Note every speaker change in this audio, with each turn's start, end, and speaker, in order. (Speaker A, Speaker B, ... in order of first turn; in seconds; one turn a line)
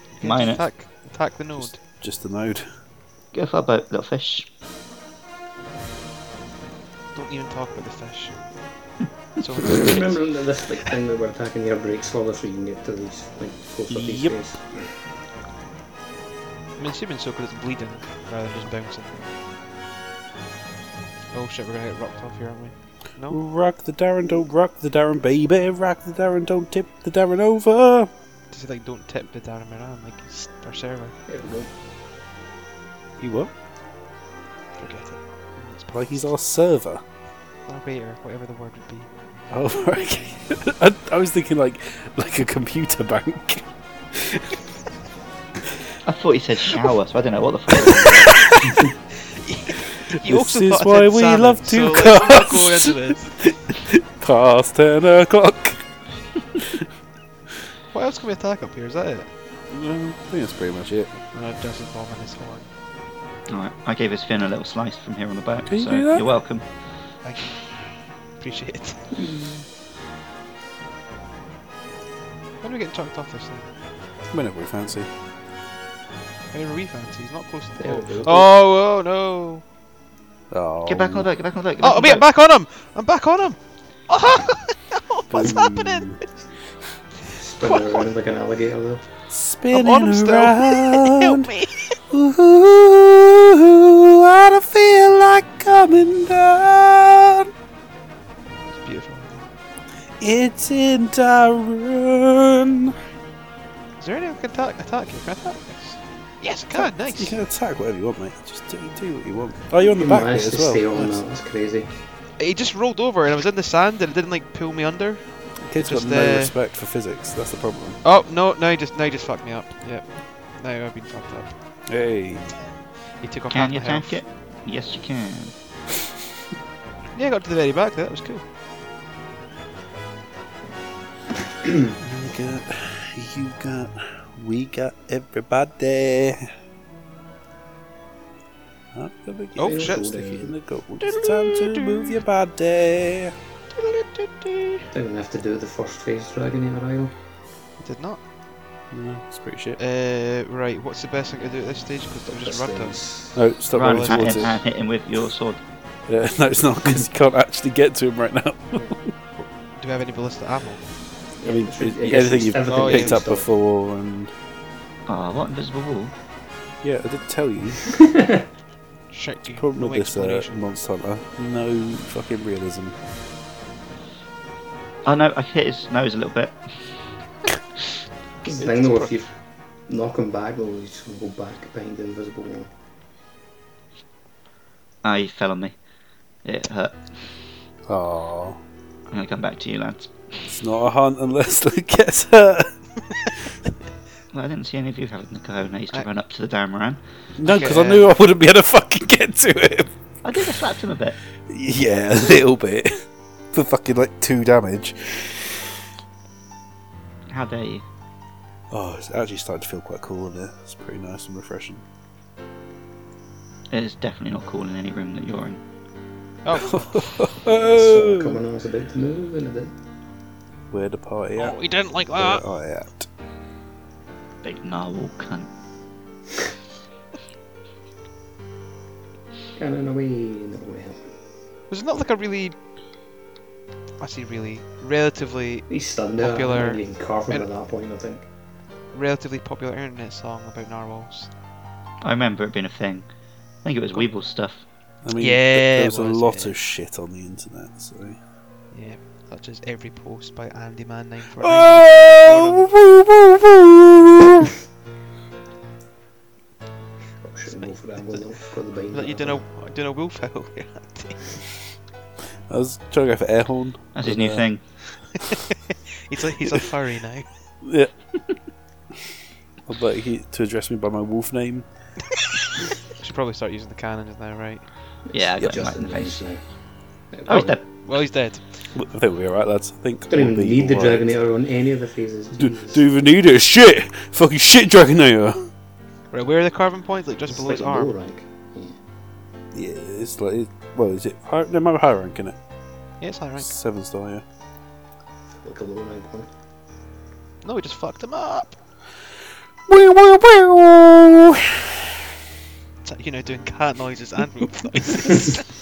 Speaker A: 0.2-1.8
Speaker B: 0.2-0.7
Speaker C: 1.6-2.7
Speaker B: 3.3-4.5
Speaker A: 7.1-8.4
Speaker A: 9.4-10.2
Speaker D: 9.6-14.8
Speaker C: 13.9-14.3
Speaker A: 16.8-19.2
Speaker A: 21.3-23.4
Speaker C: 23.3-28.1
Speaker A: 28.5-31.1
Speaker D: 31.3-31.7
Speaker C: 33.2-33.5
Speaker A: 34.8-36.3
Speaker C: 35.9-37.0
Speaker A: 37.7-39.1
Speaker C: 39.5-44.6
Speaker B: 46.0-48.6
Speaker A: 47.9-48.7
Speaker A: 49.4-53.4
Speaker C: 49.9-55.9
Speaker C: 56.6-56.9
Speaker A: 57.9-59.3
Speaker C: 59.7-61.1
Speaker A: 61.3-62.7
Speaker B: 63.5-66.7
Speaker C: 65.7-66.3
Speaker A: 67.2-67.6
Speaker A: 68.4-69.1
Speaker A: 72.6-73.7
Speaker C: 74.3-75.1
Speaker A: 76.5-79.6
Speaker D: 77.8-78.5
Speaker C: 80.5-81.3
Speaker B: 80.9-82.2
Speaker A: 81.8-86.3
Speaker C: 85.3-86.2
Speaker D: 87.4-89.0
Speaker A: 87.6-88.1
Speaker C: 89.3-91.5
Speaker A: 89.7-92.0
Speaker C: 92.1-97.5
Speaker A: 98.7-99.5
Speaker C: 100.2-102.9
Speaker A: 104.0-107.4
Speaker C: 106.7-111.1
Speaker D: 109.8-111.9
Speaker A: 112.4-116.5
Speaker C: 115.6-118.0
Speaker A: 118.0-121.5
Speaker C: 121.9-122.6
Speaker A: 123.2-124.2
Speaker B: 123.5-125.5
Speaker A: 127.2-128.4
Speaker C: 132.0-136.5
Speaker C: 138.9-143.3
Speaker A: 139.6-140.0
Speaker D: 139.6-140.6
Speaker A: 141.0-142.2
Speaker A: 143.8-144.9
Speaker D: 144.9-147.1
Speaker A: 147.8-148.2
Speaker C: 148.9-149.8
Speaker A: 149.8-153.0
Speaker D: 152.3-153.4
Speaker C: 153.3-154.6
Speaker B: 153.7-155.6
Speaker A: 153.9-154.6
Speaker C: 156.1-159.1
Speaker A: 158.8-160.8
Speaker D: 161.4-163.5
Speaker C: 161.4-164.3
Speaker A: 162.7-163.2
Speaker B: 165.1-166.1
Speaker C: 166.8-167.9
Speaker D: 167.9-168.4
Speaker A: 169.1-170.6
Speaker C: 169.5-172.9
Speaker B: 175.1-176.6
Speaker D: 178.4-179.3
Speaker A: 178.6-179.1
Speaker D: 179.9-182.7
Speaker B: 185.0-185.8
Speaker B: 186.4-187.1
Speaker C: 187.9-188.6
Speaker B: 189.1-190.1
Speaker C: 190.5-192.7
Speaker B: 194.3-197.0
Speaker C: 197.4-199.9
Speaker A: 197.4-198.1
Speaker B: 200.2-201.2
Speaker C: 201.5-203.0
Speaker C: 203.5-205.7
Speaker B: 207.3-207.8
Speaker C: 208.7-211.8
Speaker B: 213.7-215.6
Speaker A: 216.4-217.2
Speaker C: 216.5-218.4
Speaker D: 217.4-219.8
Speaker C: 220.7-223.1
Speaker A: 221.4-222.4
Speaker B: 224.4-225.5
Speaker D: 229.6-231.0
Speaker A: 231.7-232.6
Speaker A: 234.0-237.5
Speaker D: 235.7-238.2
Speaker A: 238.9-241.3
Speaker B: 242.0-243.1
Speaker B: 243.6-244.6
Speaker C: 245.0-248.2
Speaker A: 245.2-246.6
Speaker A: 248.7-252.7
Speaker C: 251.4-254.5
Speaker D: 257.2-259.5
Speaker A: 257.5-258.2
Speaker A: 258.9-261.3
Speaker C: 262.5-264.5
Speaker B: 263.9-264.6
Speaker A: 266.1-267.3
Speaker C: 267.6-267.9
Speaker C: 269.7-271.7
Speaker A: 273.0-274.6
Speaker D: 275.1-276.4
Speaker B: 275.1-276.2
Speaker D: 277.1-277.6
Speaker B: 277.3-277.6
Speaker A: 277.8-278.6
Speaker C: 278.7-281.1
Speaker D: 280.1-282.8
Speaker C: 282.4-285.5
Speaker A: 286.1-287.9
Speaker D: 287.3-288.8
Speaker C: 289.5-292.4
Speaker A: 293.0-293.5
Speaker C: 293.4-294.2
Speaker D: 295.4-296.3
Speaker A: 297.4-298.6
Speaker C: 299.7-301.9
Speaker A: 302.8-305.4